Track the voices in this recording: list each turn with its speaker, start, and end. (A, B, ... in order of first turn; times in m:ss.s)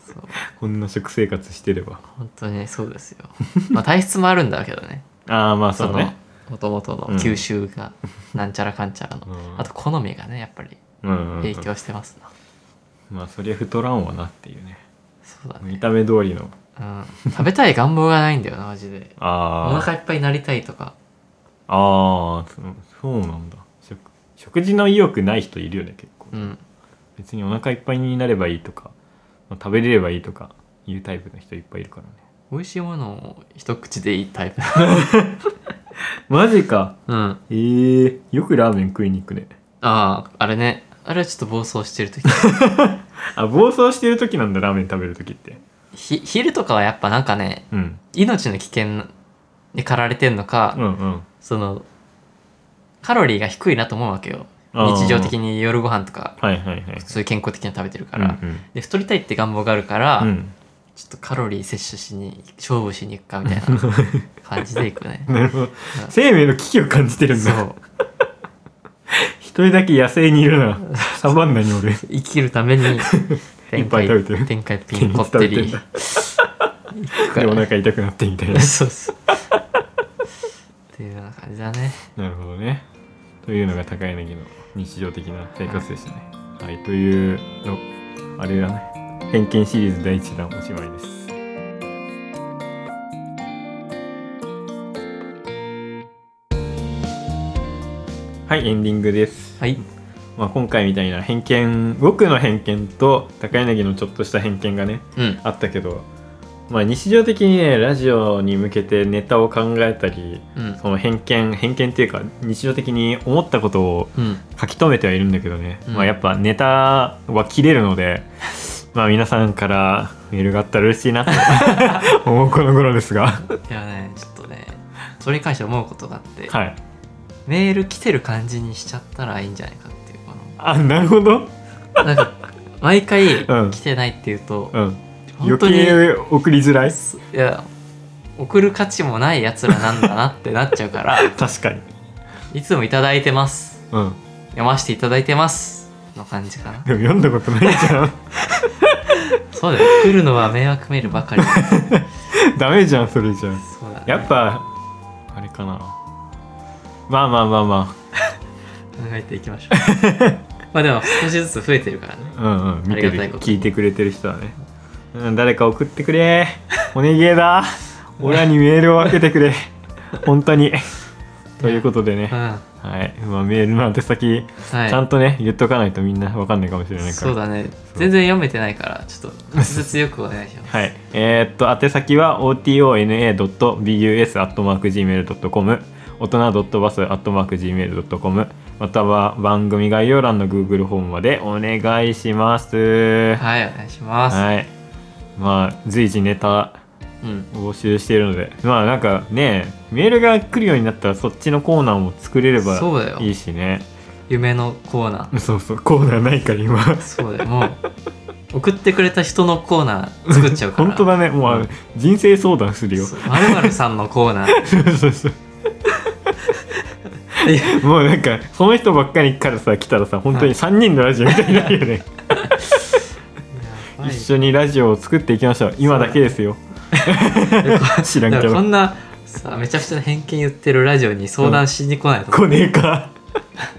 0:00.1-0:00.4 A
0:00.4-0:02.0 B
0:02.1-0:05.1 A
0:05.3-0:06.1 B
0:05.8-0:10.8 A
0:07.1-0:07.4 B
0:09.3-0:09.7 B
0:11.0-0:11.7 B
0:11.4-0:12.3 A
0:13.1-0:14.8 B
0:15.3-0:15.8 A
0:15.6-0:16.5 B
0:16.8-0:21.0 A
0:19.2-0:19.9 B
0:21.7-0:26.5 B
0:26.3-0:26.6 A
0:27.2-0:28.9 B
0:29.5-0:32.2 B
0:32.5-0:35.0 A
0:34.8-0:35.4 B
0:36.3-0:37.0 B
0:37.1-0:37.4 A
0:37.5-0:39.5 B
0:39.8-0:42.5 A
0:42.3-0:45.6 B
0:45.9-0:49.1 A
0:47.7-0:48.0 B
0:49.7-0:50.8 A
0:50.8-0:51.3 B
0:51.4-0:51.9 A
0:53.0-0:56.4 A
0:54.7-0:55.4 B
0:56.4-0:57.0 B
0:57.0-1:00.3 A
0:58.2-0:58.6 B
1:00.2-1:00.5 B
1:01.0-1:05.3 A
1:03.5-1:04.2 B
1:05.3-1:07.6 B
1:07.4-1:07.8 A
1:09.1-1:12.0 B
1:10.9-1:11.4 A
1:12.0-1:13.1 A
1:13.0-1:16.4 B
1:13.7-1:16.2 A
1:17.0-1:17.6 A
1:17.2-1:18.8 B
1:18.5-1:19.3 A
1:20.9-1:22.1 A
1:22.2-1:22.9 B
1:23.4-1:27.8 B
1:28.4-1:31.3 B
1:38.5-1:39.6 B
1:40.4-1:46.1 B
1:46.7-2:03.5 B
1:54.2-1:54.4 A
1:55.9-1:56.1 A
2:01.3-2:02.1 A
2:03.6-2:06.6 A
2:06.5-2:06.8 B
2:07.5-2:10.6 A
2:10.6-2:11.5 B
2:12.0-2:14.8 A
2:13.4-2:13.8 B
2:14.7-2:17.0 B
2:15.3-2:16.0 A
2:16.9-2:17.7 A
2:18.4-2:21.3 A
2:21.2-2:21.9 B
2:22.5-2:23.8 A
2:23.9-2:24.2 B
2:24.6-2:26.9 A
2:26.8-2:29.2 B
2:29.5-2:31.9 A
2:29.8-2:30.1 B
2:31.4-2:34.7 B
2:33.6-2:34.3 A
2:35.3-2:36.0 B
2:37.1-2:38.0 B
2:39.0-2:40.0 A
2:39.7-2:40.4 B
2:40.7-2:42.4 A
2:42.3-2:44.6 B
2:42.9-2:43.7 A
2:45.1-2:50.9 B
2:51.6-2:52.6 A
2:51.6-2:57.4 B
2:54.7-2:55.0 A
2:57.0-3:00.9 A
2:59.6-2:59.9 B
3:00.7-3:13.4 B
3:13.4-3:14.4 A
3:14.3-3:14.7 B
3:15.4-3:16.8 B
3:17.2-3:17.5 A
3:17.5-3:23.9 B
3:22.6-3:23.3 A
3:24.3-3:25.3 A
3:25.3-3:27.1 B
3:27.0-3:27.8 A
3:28.5-3:31.7 A
3:30.3-3:33.8 B
3:33.0-3:34.7 A
3:34.5-3:35.4 B
3:37.3-3:37.8 A
3:37.4-3:43.0 B
3:41.4-3:41.7 A
3:43.5-3:44.3 A
3:44.0-3:48.7 B
3:45.9-3:46.2 A
3:46.9-3:52.5 A
3:52.3-3:53.1 B